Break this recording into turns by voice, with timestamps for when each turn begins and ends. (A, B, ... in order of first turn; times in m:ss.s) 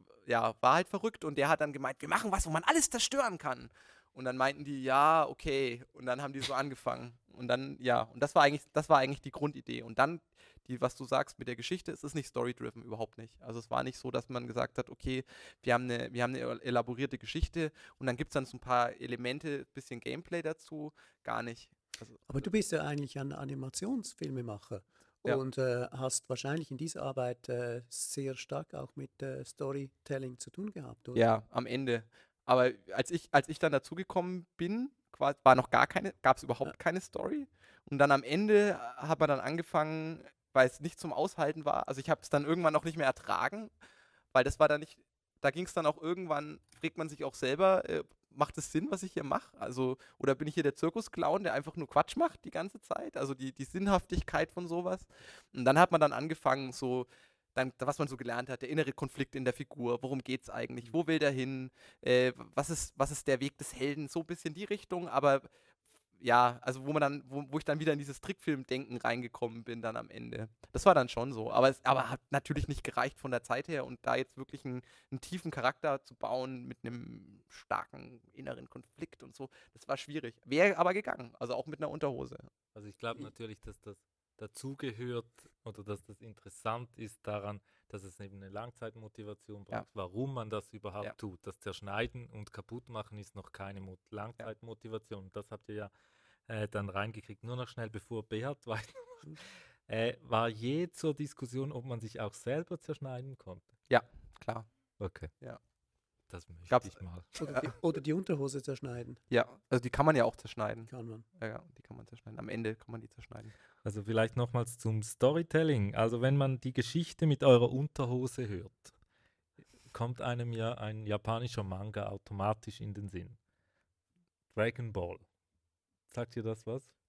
0:00.2-0:22.4 A
0:22.3-0:31.3 B
0:31.1-0:43.7 A
0:44.3-1:05.5 A
1:06.2-1:22.5 A
1:22.7-1:35.9 C
1:36.5-1:43.7 C
1:43.9-1:44.7 A
1:45.0-1:45.3 C
1:46.3-1:47.3 C
1:46.7-1:47.7 A
1:47.4-1:49.2 B
1:49.3-1:53.5 A
1:50.9-1:51.2 B
1:53.8-1:58.9 C
1:59.9-2:03.4 C
2:04.5-2:05.3 C
2:06.1-2:06.9 C